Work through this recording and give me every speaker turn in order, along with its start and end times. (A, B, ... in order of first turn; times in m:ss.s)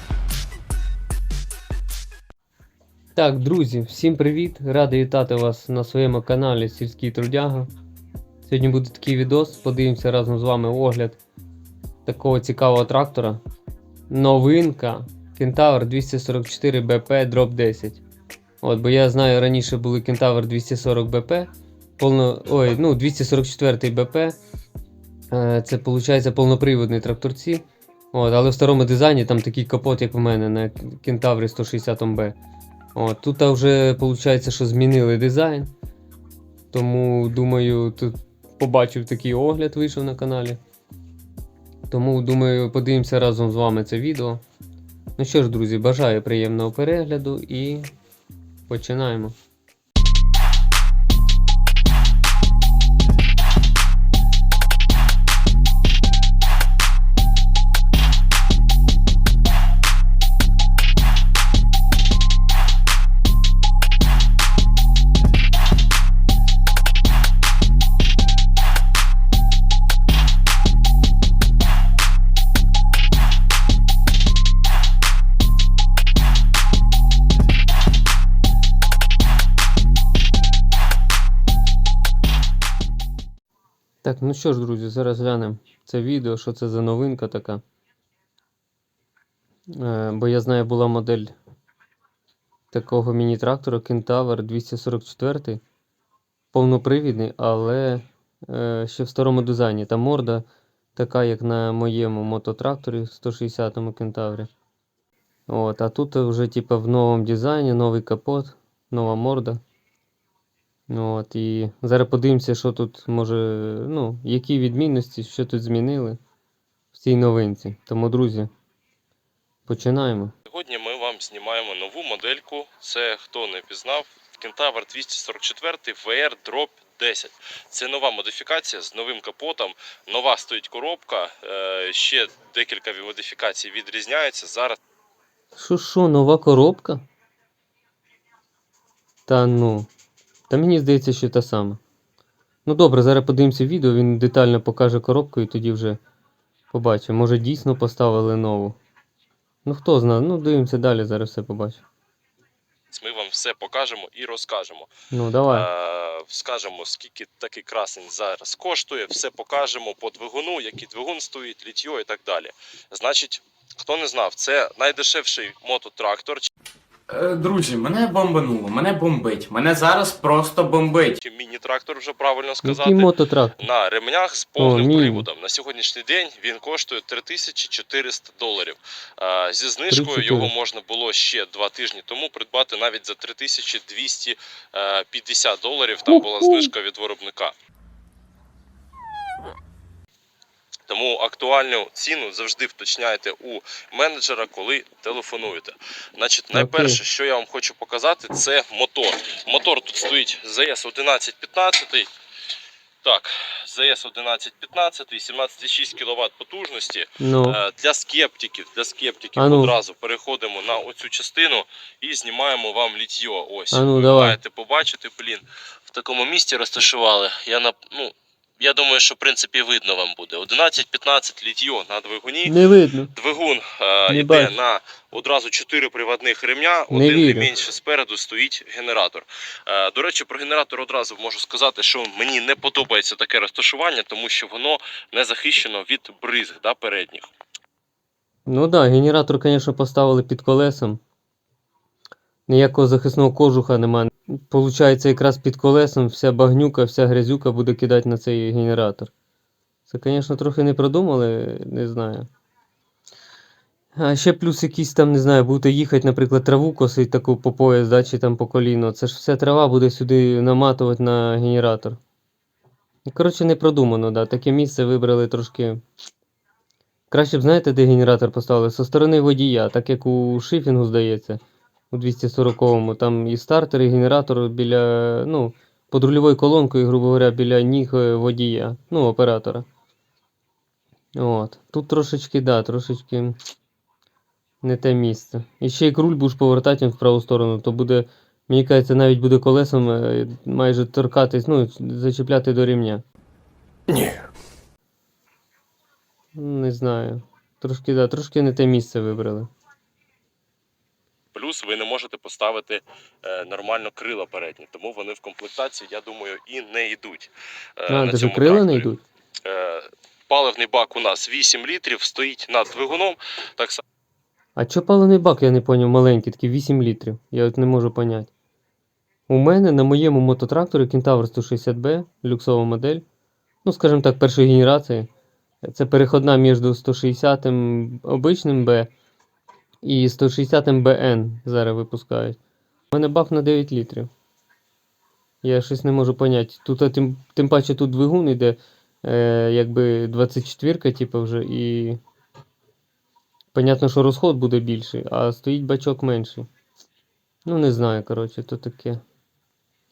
0:03.2-0:07.7 A
0:08.5-0:11.2 A
0:12.1-0:13.4 A
0:14.1-0:18.0 A
0:18.6-0:24.4 A
0:25.3-0:32.4 A
0:33.0-0:35.7 A
0:36.7-0:40.6 A
0:41.9-0:44.4 A
0:45.2-0:47.9 A
0:48.7-0:49.3 A
1:24.0-1:27.6 A
1:29.7-1:31.3 A
1:32.7-1:35.6 A
1:36.5-1:40.4 A
1:41.0-1:44.5 A
1:45.5-1:49.6 A
1:50.9-1:56.2 A
1:56.9-1:58.5 A
1:59.7-2:00.3 A
2:00.5-2:14.8 B
2:15.6-2:17.0 A
2:19.3-2:19.9 A
2:20.5-2:21.8 A
2:22.7-2:26.0 A
2:26.7-2:28.8 A
2:29.7-2:31.8 A
2:32.9-2:34.9 B
2:35.1-2:35.7 A
2:35.5-2:46.5 B
2:47.1-2:51.2 C
2:51.2-3:07.6 B
2:52.6-2:53.6 A
2:54.6-2:55.3 A
2:59.9-3:00.5 A
3:06.1-3:06.7 A
3:10.9-3:22.1 B
3:16.5-3:17.0 A
3:23.0-3:42.5 B
3:27.2-3:27.6 A
3:29.4-3:29.8 A
3:33.7-3:34.4 A
3:42.4-3:43.1 A
3:43.1-3:57.3 B
3:44.1-3:44.6 A
3:46.9-3:47.5 A
3:58.5-4:01.0 A
4:02.5-4:09.1 A
4:09.9-4:12.3 A
4:14.0-4:22.0 A
4:23.1-4:25.8 A
4:27.1-4:31.4 A
4:31.9-4:39.6 A
4:41.2-4:43.4 A
4:44.6-4:53.0 A
4:53.9-4:54.2 C
4:56.4-4:59.5 A
5:01.3-5:08.9 B
5:07.9-5:09.0 A
5:09.4-5:13.8 B
5:14.6-5:18.3 A
5:19.3-5:23.0 A
5:23.6-5:25.1 A
5:25.6-5:28.9 A
5:29.8-5:32.4 A
5:32.9-5:34.1 A
5:35.4-5:42.0 A
5:43.5-5:46.5 A
5:47.5-5:49.0 A